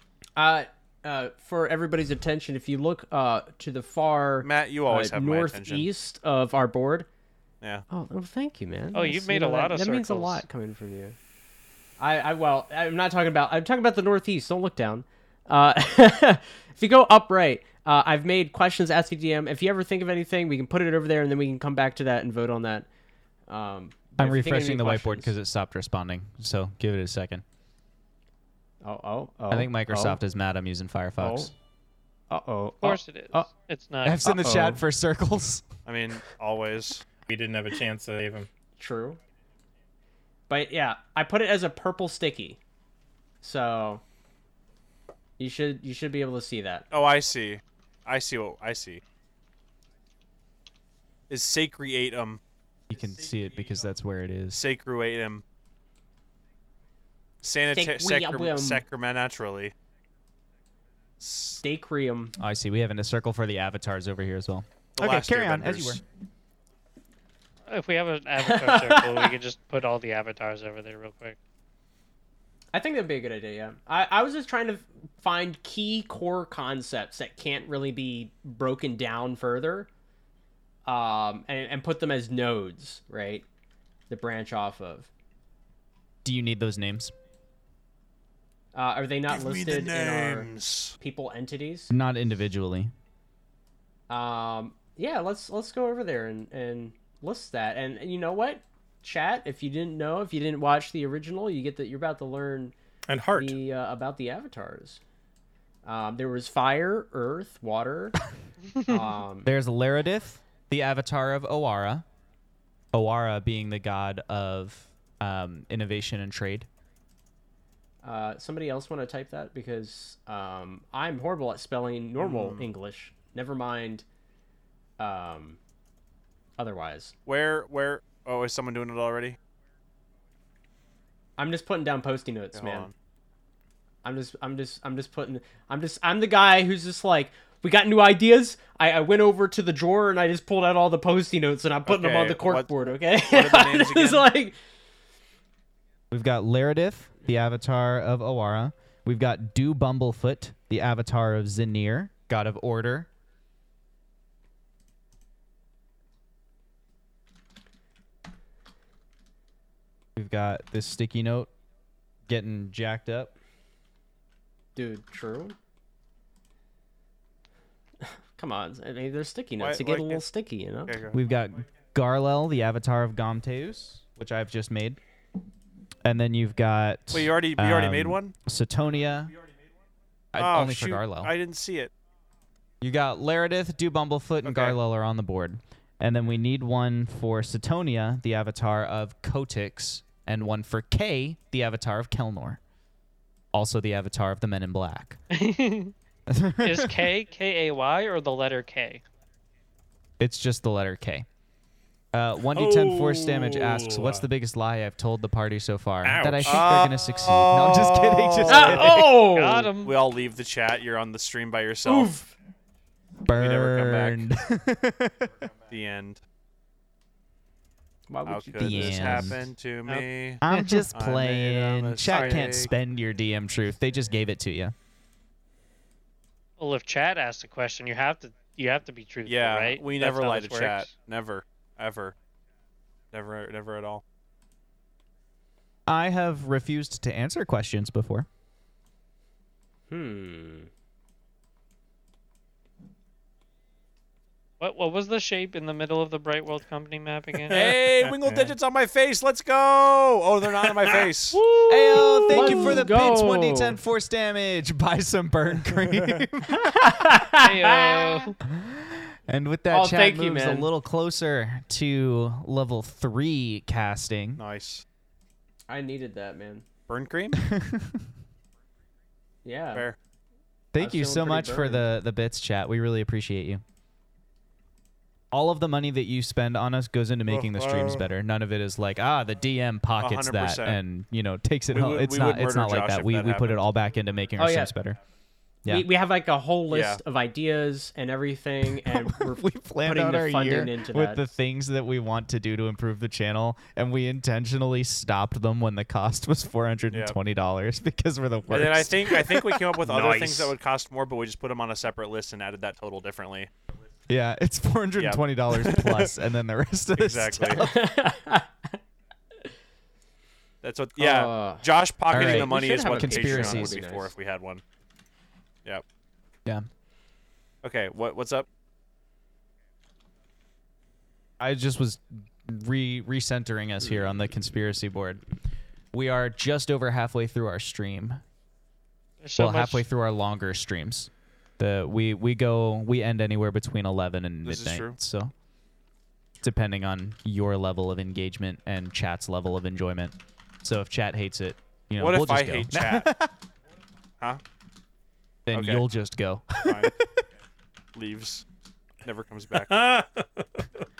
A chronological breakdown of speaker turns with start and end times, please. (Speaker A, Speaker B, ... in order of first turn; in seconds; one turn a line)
Speaker A: 0.4-7.1
Speaker B: 4.4-5.9
Speaker A: 7.9-11.2
Speaker C: 8.9-10.4
Speaker A: 12.0-22.9
Speaker A: 23.5-25.3
Speaker D: 24.2-27.4
Speaker A: 28.8-30.2
Speaker D: 29.5-31.5
Speaker A: 31.2-31.5
Speaker A: 32.3-33.5
Speaker C: 32.8-34.4
Speaker D: 34.0-35.7
Speaker A: 34.2-34.8
Speaker B: 35.9-37.0
Speaker E: 37.3-38.5
Speaker A: 38.8-39.2
Speaker A: 40.5-42.6
Speaker A: 43.4-44.0
Speaker A: 45.4-46.9
Speaker B: 46.9-49.0
Speaker B: 51.3-52.4
Speaker D: 52.9-54.6
Speaker B: 54.5-55.4
Speaker B: 57.4-59.7
Speaker A: 57.7-58.8
Speaker B: 61.2-61.6
Speaker A: 61.6-62.4
Speaker D: 62.4-66.0
Speaker B: 65.0-66.0
Speaker C: 67.7-71.4
Speaker A: 68.4-69.4
Speaker A: 72.7-79.9
Speaker A: 80.9-83.5
Speaker A: 84.1-85.1
Speaker D: 86.2-87.1
Speaker A: 88.7-91.9
Speaker B: 89.3-91.0
Speaker D: 91.9-92.9
Speaker A: 94.1-102.7
Speaker E: 103.1-103.6
Speaker A: 103.3-105.0
Speaker A: 105.8-108.2
Speaker A: 108.8-109.5
Speaker D: 109.5-112.0
Speaker D: 112.9-116.7
Speaker A: 118.0-124.0
Speaker B: 122.2-122.7
Speaker A: 125.0-125.6
Speaker A: 126.6-127.2
Speaker B: 127.3-129.4
Speaker A: 131.4-132.9
Speaker B: 132.6-132.9
Speaker A: 134.0-144.6
Speaker B: 141.9-144.3
Speaker D: 146.1-153.1
Speaker D: 160.2-161.5
Speaker D: 162.3-163.3
Speaker A: 164.8-165.6
Speaker A: 168.4-171.0
Speaker B: 169.6-170.2
Speaker B: 170.9-171.2
Speaker D: 171.1-175.0
Speaker D: 176.0-179.3
Speaker B: 177.1-178.3
Speaker D: 180.3-181.3
Speaker B: 180.4-181.9
Speaker D: 182.8-192.6
Speaker B: 184.4-184.8
Speaker D: 193.5-195.2
Speaker C: 195.3-195.9
Speaker D: 196.3-197.0
Speaker C: 196.6-199.0
Speaker D: 200.2-201.3
Speaker D: 202.1-209.2
Speaker E: 202.5-204.3
Speaker E: 206.0-206.9
Speaker B: 206.4-208.9
Speaker A: 208.5-209.7
Speaker C: 209.1-210.0
Speaker B: 209.8-212.2
Speaker A: 211.8-212.3
Speaker D: 213.2-215.3
Speaker B: 213.4-214.3
Speaker B: 215.7-216.2
Speaker A: 218.1-219.3
Speaker B: 218.3-222.7
Speaker D: 218.6-219.5
Speaker C: 219.9-220.8
Speaker D: 220.4-224.8
Speaker C: 226.6-230.9
Speaker B: 229.3-232.2
Speaker B: 233.1-234.0
Speaker D: 235.9-238.3
Speaker A: 239.9-240.7
Speaker C: 244.6-247.8
Speaker B: 247.5-251.4
Speaker E: 247.5-248.5
Speaker E: 250.6-251.1
Speaker A: 251.3-253.8
Speaker D: 251.7-257.2
Speaker B: 255.9-256.2
Speaker A: 256.5-258.3
Speaker C: 257.4-258.4
Speaker D: 258.4-264.4
Speaker A: 259.7-260.7
Speaker B: 264.4-264.8
Speaker A: 265.7-266.6
Speaker B: 266.9-267.4
Speaker D: 267.4-268.1
Speaker A: 269.4-269.9
Speaker D: 270.7-273.6
Speaker A: 270.8-271.9
Speaker D: 275.3-285.0
Speaker B: 277.3-278.1
Speaker B: 280.0-280.8
Speaker B: 281.7-283.6
Speaker A: 284.4-284.7
Speaker A: 285.7-291.3
Speaker B: 286.7-287.0
Speaker D: 288.8-299.6
Speaker B: 296.9-297.2
Speaker B: 298.5-303.5
Speaker E: 299.9-300.5
Speaker D: 304.1-307.8
Speaker B: 305.0-306.1
Speaker B: 307.0-307.7
Speaker A: 307.6-308.8
Speaker B: 310.6-314.6
Speaker A: 311.0-314.1
Speaker D: 312.1-313.8
Speaker B: 317.6-318.5
Speaker D: 321.4-325.2
Speaker D: 325.9-328.2
Speaker C: 329.2-329.9
Speaker D: 329.4-335.3
Speaker B: 334.4-335.0
Speaker D: 336.4-343.3
Speaker B: 342.0-343.1
Speaker D: 345.5-347.2
Speaker B: 345.5-345.8
Speaker B: 346.6-346.9
Speaker B: 347.9-348.4
Speaker B: 349.0-349.7
Speaker E: 349.7-350.7